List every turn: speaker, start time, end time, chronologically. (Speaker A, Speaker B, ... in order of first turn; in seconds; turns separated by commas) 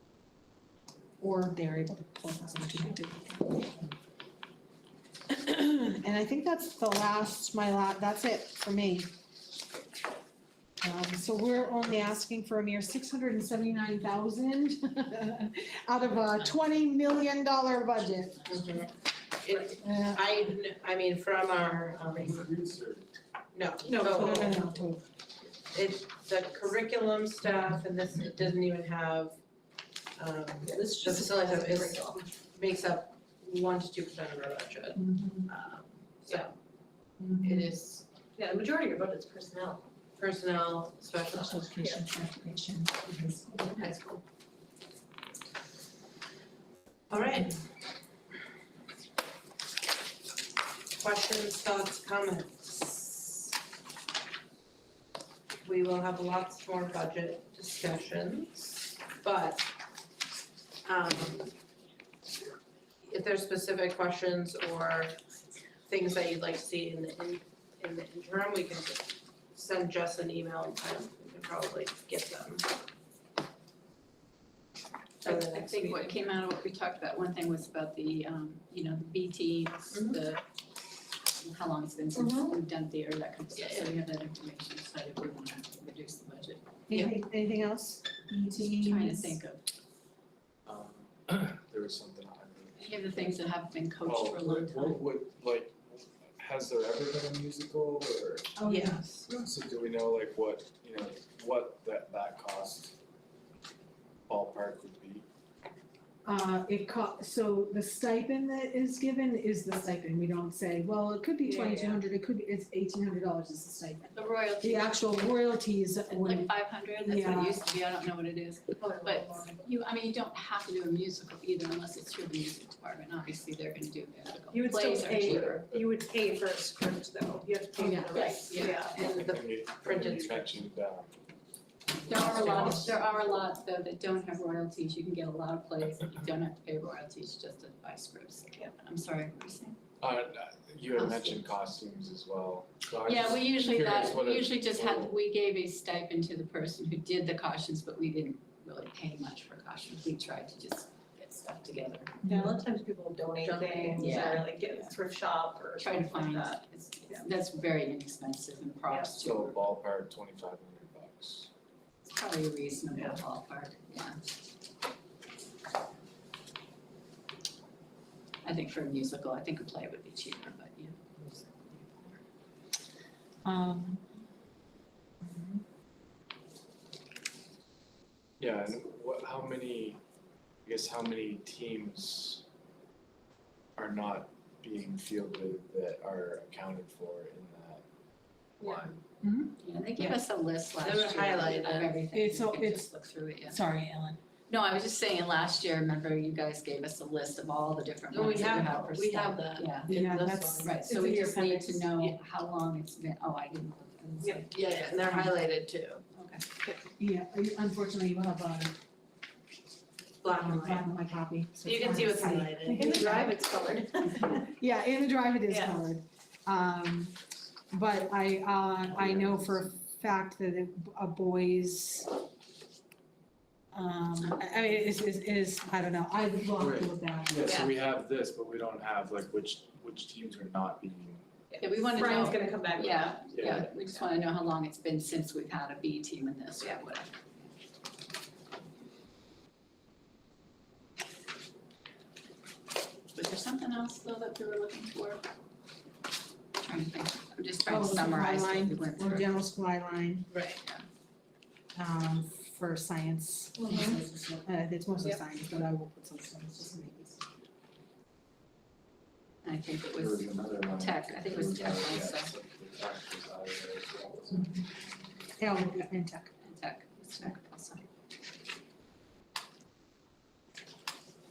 Speaker A: 1.2-3.9, Speaker A: 5.3-9.1, Speaker A: 10.8-18.5, Speaker B: 18.5-22.6, Speaker A: 19.8-20.2, Speaker C: 22.2-23.1, Speaker B: 23.5-24.7, Speaker D: 23.8-24.8, Speaker A: 24.1-25.0, Speaker B: 25.7-29.4, Speaker B: 30.2-36.5, Speaker D: 30.6-32.3, Speaker A: 35.0-35.5, Speaker A: 37.2-37.7, Speaker B: 37.4-38.0, Speaker D: 38.4-39.8, Speaker B: 40.2-41.7, Speaker A: 41.3-43.9, Speaker D: 41.8-42.1, Speaker B: 43.8-44.2, Speaker B: 47.1-47.6, Speaker B: 51.0-53.5, Speaker B: 55.6-59.7, Speaker B: 60.9-61.6, Speaker B: 63.0-65.2, Speaker B: 65.9-72.7, Speaker B: 75.2-76.1, Speaker E: 75.2-80.4, Speaker B: 79.9-80.2, Speaker E: 81.4-87.1, Speaker D: 82.2-82.5, Speaker B: 83.6-83.8, Speaker A: 86.9-89.4, Speaker E: 88.8-89.6, Speaker C: 90.7-93.4, Speaker E: 92.8-95.0, Speaker C: 94.0-98.5, Speaker A: 98.6-99.0, Speaker B: 98.7-99.3, Speaker C: 99.3-103.0, Speaker C: 104.3-105.3, Speaker A: 106.2-117.6, Speaker D: 111.5-112.0, Speaker E: 114.1-115.2, Speaker E: 116.1-125.7, Speaker D: 118.8-119.6, Speaker D: 124.5-129.0, Speaker C: 125.2-125.9, Speaker A: 127.8-128.3, Speaker E: 128.1-129.1, Speaker B: 128.6-130.6, Speaker C: 129.0-131.1, Speaker E: 132.0-139.8, Speaker A: 132.1-132.9, Speaker B: 132.2-132.8, Speaker C: 140.0-145.1, Speaker E: 140.9-141.5, Speaker E: 143.1-152.2, Speaker A: 152.2-152.6, Speaker D: 152.2-157.2, Speaker B: 153.4-154.4, Speaker E: 154.0-154.9, Speaker E: 155.8-159.6, Speaker C: 159.2-161.5, Speaker E: 162.1-164.2, Speaker D: 162.9-163.2, Speaker E: 168.4-172.2, Speaker A: 173.4-174.0, Speaker A: 175.2-175.6, Speaker C: 178.4-180.0, Speaker C: 180.7-182.4, Speaker C: 183.8-187.8, Speaker A: 189.2-190.2, Speaker E: 189.6-193.6, Speaker B: 190.8-191.9, Speaker A: 192.1-192.9, Speaker A: 193.5-194.2, Speaker E: 194.5-199.9, Speaker B: 198.1-200.8, Speaker A: 199.9-201.9, Speaker E: 200.6-205.3, Speaker D: 204.2-204.5, Speaker B: 204.5-206.0, Speaker E: 206.2-206.4, Speaker A: 207.0-208.8, Speaker B: 210.2-210.9, Speaker A: 210.4-213.4, Speaker B: 211.6-213.1, Speaker D: 212.7-214.6, Speaker A: 214.2-217.2, Speaker D: 215.5-215.9, Speaker A: 217.7-222.1, Speaker C: 218.9-219.7, Speaker A: 223.7-227.4, Speaker E: 224.2-224.8, Speaker C: 226.6-231.3, Speaker D: 231.5-233.6, Speaker E: 231.6-237.2, Speaker A: 232.0-232.4, Speaker C: 233.3-233.7, Speaker E: 243.1-245.2, Speaker E: 246.6-249.4, Speaker A: 247.7-250.3, Speaker B: 250.3-250.6, Speaker A: 251.8-257.2, Speaker D: 253.6-254.0, Speaker E: 259.4-262.3, Speaker C: 260.0-264.6, Speaker A: 265.4-266.3, Speaker E: 266.4-267.8